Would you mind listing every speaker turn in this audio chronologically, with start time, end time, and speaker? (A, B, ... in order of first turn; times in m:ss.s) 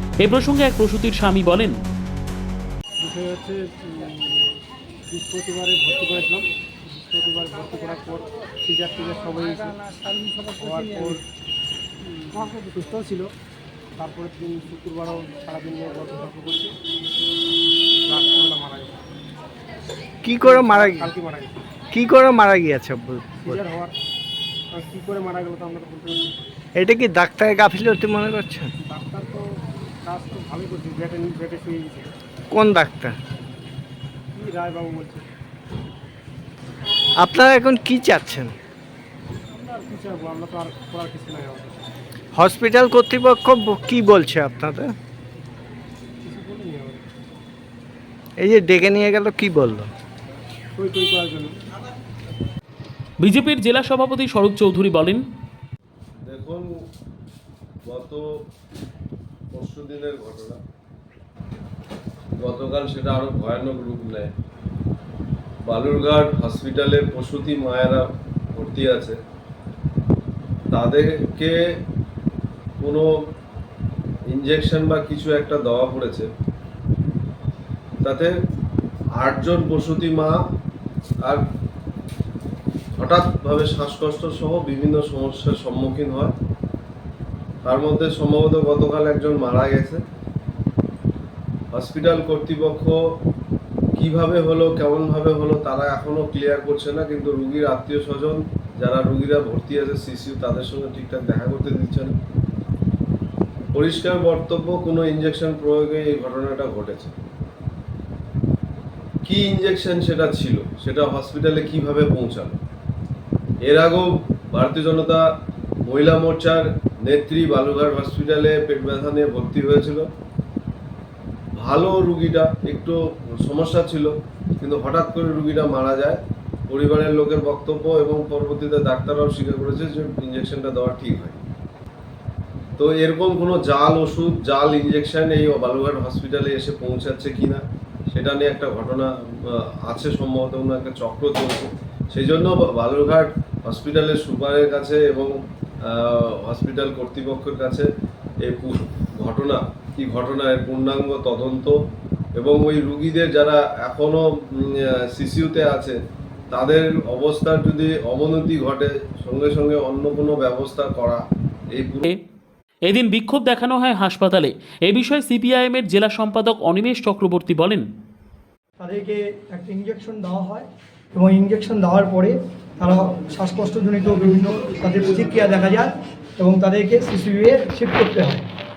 0:00.2-0:01.7 A
0:03.0-0:09.8 B
0:10.6-0:11.2 B
0:12.3-0:13.3 B
0:14.0-0:16.7 B
0:18.0-0:19.0 B
0:20.2-0:21.1 C
0:20.4-0:21.6 B
0:21.9-0:23.6 C
0:23.4-0:23.9 B
0:24.7-0:26.4 B
0:26.8-0:28.7 C
0:28.8-0:29.4 B
0:30.0-0:32.2 B
0:32.5-0:33.2 C
0:34.3-0:35.3 B
0:37.2-0:38.5 C
0:39.5-0:41.9 B
0:42.3-0:44.9 C
0:46.2-0:47.0 B
0:48.4-0:49.9 C
0:50.7-0:51.6 B
0:53.2-0:55.2 A
0:56.2-0:56.7 D
0:57.8-0:58.2 D
0:59.5-1:00.6 D
1:02.4-1:04.3 D
1:05.6-1:09.2 D
1:10.7-1:11.5 D
1:12.8-1:13.0 D
1:14.3-1:16.3 D
1:18.0-1:18.3 D
1:19.2-1:20.4 D
1:23.0-1:26.3 D
1:27.6-1:30.0 D
1:31.7-1:33.0 D
1:34.0-1:42.1 D
1:43.7-1:47.1 D
1:49.2-1:52.6 D
1:53.6-1:55.2 D
1:55.8-2:00.0 D
2:01.6-2:11.4 D
2:12.8-2:25.3 D
2:25.9-2:27.9 D
2:28.4-2:31.7 D
2:32.4-2:36.0 D
2:36.5-2:41.2 D
2:41.7-2:42.1 D
2:42.9-2:47.8 A
2:48.8-2:58.4 E